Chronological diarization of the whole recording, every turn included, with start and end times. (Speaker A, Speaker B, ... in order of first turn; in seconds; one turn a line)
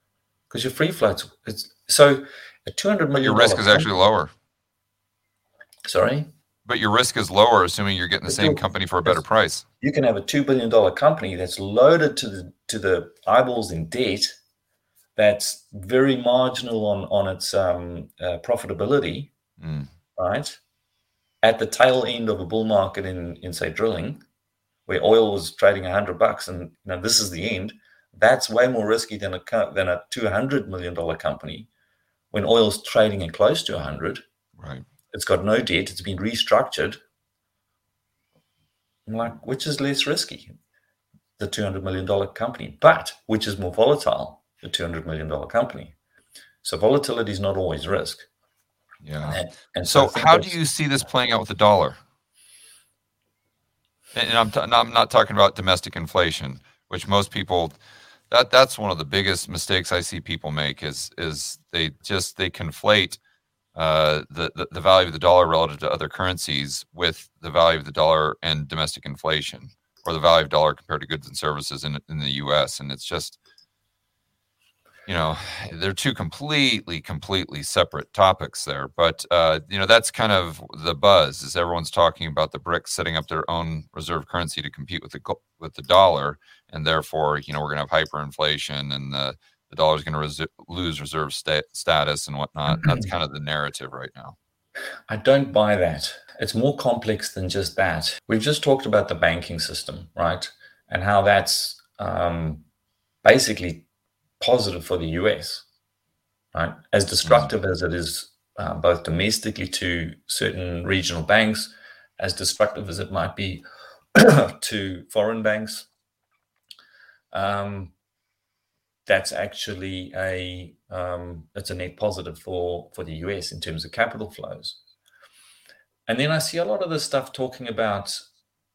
Speaker A: 0.5-3.9
Speaker B: 3.2-4.3
Speaker A: 5.9-6.3
Speaker B: 6.7-9.6
Speaker A: 8.3-9.2
Speaker A: 9.8-14.4
Speaker A: 15.2-19.3
Speaker B: 19.6-19.9
Speaker A: 20.1-20.6
Speaker A: 21.4-24.2
Speaker A: 24.9-31.7
Speaker A: 32.3-34.2
Speaker B: 34.6-34.8
Speaker A: 35.1-37.0
Speaker A: 39.1-40.5
Speaker A: 41.4-46.0
Speaker A: 46.6-48.3
Speaker B: 49.0-52.0
Speaker A: 49.2-50.6
Speaker B: 54.1-57.8
Speaker B: 58.3-63.2
Speaker B: 63.7-73.4
Speaker B: 75.1-94.4
Speaker A: 95.1-102.6
Speaker A: 103.2-103.9
Speaker A: 104.4-105.7
Speaker A: 106.5-115.9
Speaker A: 117.3-117.9
Speaker A: 119.0-124.8
Speaker A: 126.1-128.2